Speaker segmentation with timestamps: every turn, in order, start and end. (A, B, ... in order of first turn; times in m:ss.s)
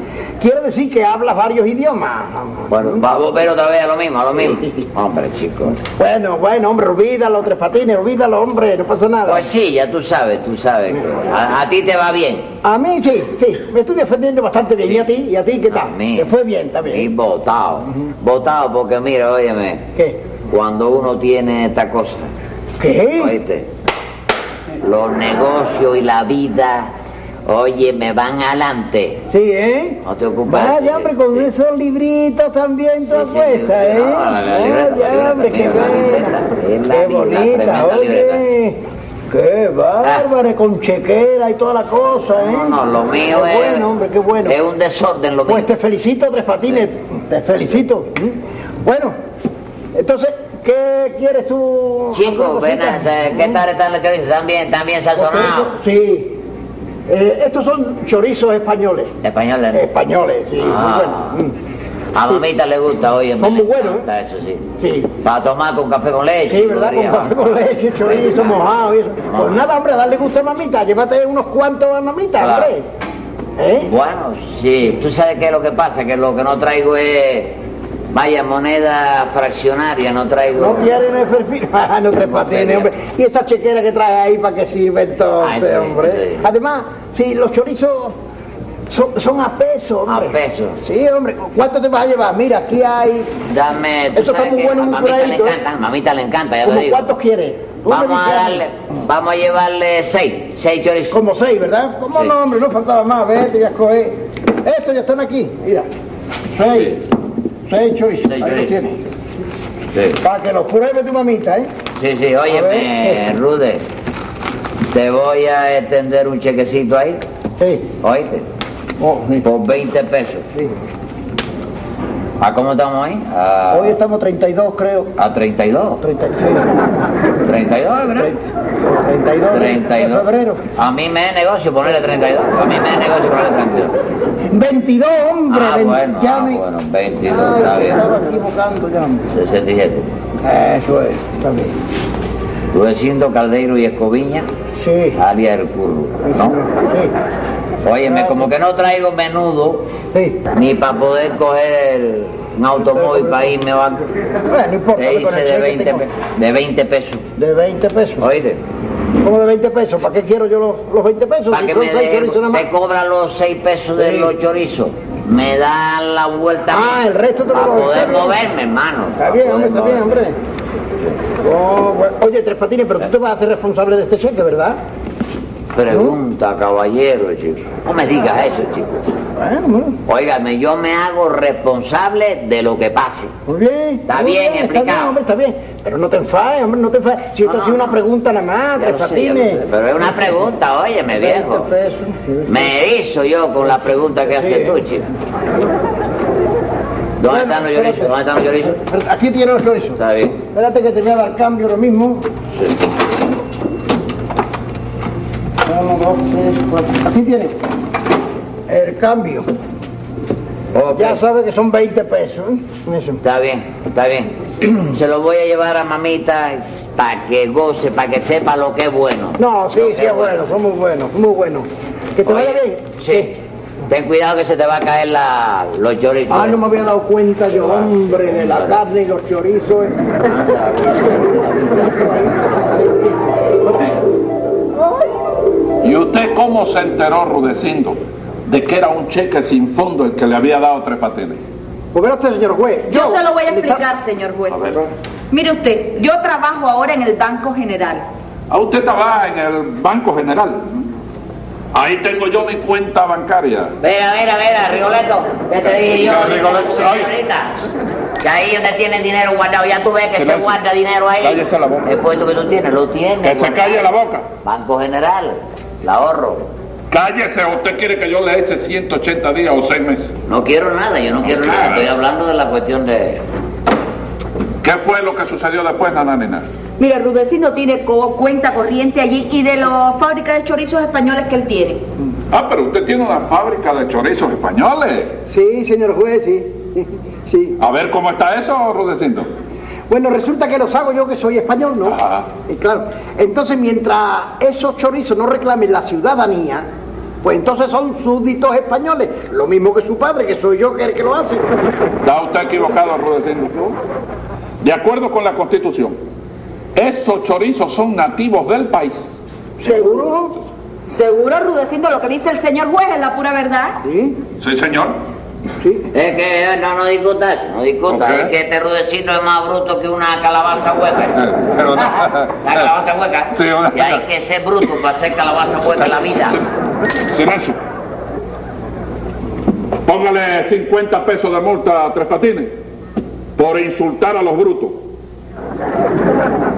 0:00.4-0:03.1 A
0:02.7-0:05.8 B
0:05.8-0:09.5 A
0:09.3-0:12.5 B
0:12.6-0:17.1 A
0:15.7-0:16.3 B
0:16.9-0:19.8 B
0:20.5-0:22.3 B
0:22.8-0:23.4 A
0:23.2-0:23.7 B
0:24.8-0:26.9 B
0:27.5-0:29.2 B
0:29.3-0:36.4 A
0:30.0-0:31.5 B
0:33.1-0:38.4 B
0:36.9-0:38.8 A
0:39.3-0:44.6 A
0:42.4-0:43.9 B
0:44.4-0:45.7 B
0:45.5-0:49.2 A
0:50.0-0:53.6 A
0:52.1-0:55.7 B
0:55.2-0:56.4 A
0:57.1-0:59.1 A
0:59.2-0:59.8 B
0:59.7-1:01.5 A
1:00.6-1:01.4 B
1:02.1-1:04.6 B
1:03.4-1:04.1 A
1:04.8-1:05.1 A
1:05.2-1:08.7 B
1:06.5-1:12.9 A
1:09.2-1:09.6 B
1:12.4-1:12.7 B
1:13.6-1:13.9 A
1:13.8-1:17.6 B
1:18.1-1:21.0 B
1:20.6-1:28.2 A
1:22.3-1:22.9 B
1:25.4-1:26.5 B
1:28.9-1:33.4 A
1:30.1-1:30.8 B
1:33.5-1:37.1 B
1:34.2-1:35.6 A
1:36.6-1:38.6 A
1:37.9-1:41.2 B
1:41.1-1:45.9 A
1:46.5-1:47.0 A
1:46.7-1:47.0 B
1:47.7-1:49.0 A
1:48.3-1:48.7 B
1:49.9-1:50.2 B
1:50.2-1:51.7 A
1:52.0-1:53.8 B
1:52.5-1:53.2 A
1:54.9-1:57.2 B
1:57.6-1:57.9 A
1:58.0-1:58.5 B
1:59.0-1:59.5 A
1:59.4-2:00.4 B
2:02.4-2:04.0 B
2:03.7-2:05.1 A
2:05.2-2:06.0 B
2:06.0-2:06.7 A
2:07.4-2:08.3 B
2:08.2-2:10.6 A
2:09.5-2:14.0 B
2:14.4-2:16.6 A
2:15.5-2:18.0 B
2:17.2-2:19.3 A
2:19.3-2:20.1 B
2:20.4-2:21.7 A
2:22.7-2:24.5 B
2:24.8-2:25.2 A
2:25.2-2:26.6 B
2:26.3-2:27.1 A
2:27.8-2:29.9 B
2:28.0-2:28.5 A
2:30.1-2:30.4 A
2:30.5-2:34.1 B
2:33.0-2:33.5 A
2:34.5-2:36.1 A
2:35.0-2:37.2 B
2:37.4-2:38.3 A
2:38.2-2:38.6 B
2:39.2-2:42.7 A
2:41.5-2:50.0 B
2:44.0-2:44.3 A
2:46.7-2:48.4 A
2:49.2-2:50.4 A
2:51.4-2:54.8 A
2:55.7-2:59.1 B
2:55.9-2:56.2 A
2:59.4-3:00.0 A
3:00.1-3:03.3 B
3:03.5-3:09.6 A
3:04.1-3:05.2 B
3:07.4-3:08.0 B
3:08.8-3:11.7 B
3:11.1-3:12.7 A
3:12.5-3:15.1 B
3:14.3-3:14.8 A
3:17.2-3:18.8 B
3:17.2-3:18.1 A
3:18.8-3:22.2 A
3:20.0-3:20.4 B
3:25.6-3:27.6 A
3:28.7-3:29.5 A
3:30.7-3:31.2 B
3:30.9-3:33.2 A
3:33.2-3:40.5 B
3:39.4-3:43.3 A
3:42.2-3:46.6 B
3:46.3-3:50.0 A
3:47.6-3:48.8 B
3:50.3-3:52.2 B
3:51.9-3:53.9 A
3:55.8-4:01.4 C
4:01.9-4:03.8 A
4:02.9-4:04.8 D
4:05.3-4:08.0 D
4:08.5-4:10.8 C
4:11.7-4:13.8 C
4:13.8-4:17.7 B
4:15.6-4:17.1 C
4:18.2-4:23.9 B
4:20.2-4:20.5 C
4:21.2-4:22.0 C
4:23.2-4:24.3 C
4:24.4-4:26.5 B
4:26.9-4:30.2 C
4:30.3-4:33.2 B
4:31.2-4:31.9 C
4:34.6-4:36.5 C
4:36.8-4:41.8 D
4:42.3-4:45.2 C
4:45.3-4:47.6 A
4:47.6-4:49.3 C
4:49.9-4:56.7 A
4:51.9-4:52.3 C
4:57.2-5:01.6 A
5:02.0-5:03.6 C
5:04.6-5:06.0 C
5:06.8-5:09.2 C
5:09.6-5:10.4 A
5:09.6-5:09.9 D
5:10.9-5:13.8 D
5:13.8-5:14.2 A
5:14.4-5:15.0 C
5:15.6-5:15.9 A
5:15.9-5:26.4 B
5:17.9-5:18.3 C
5:21.2-5:22.7 C
5:23.3-5:24.0 C
5:25.5-5:26.5 C
5:27.1-5:27.6 C
5:29.9-5:32.5 C
5:33.4-5:34.8 C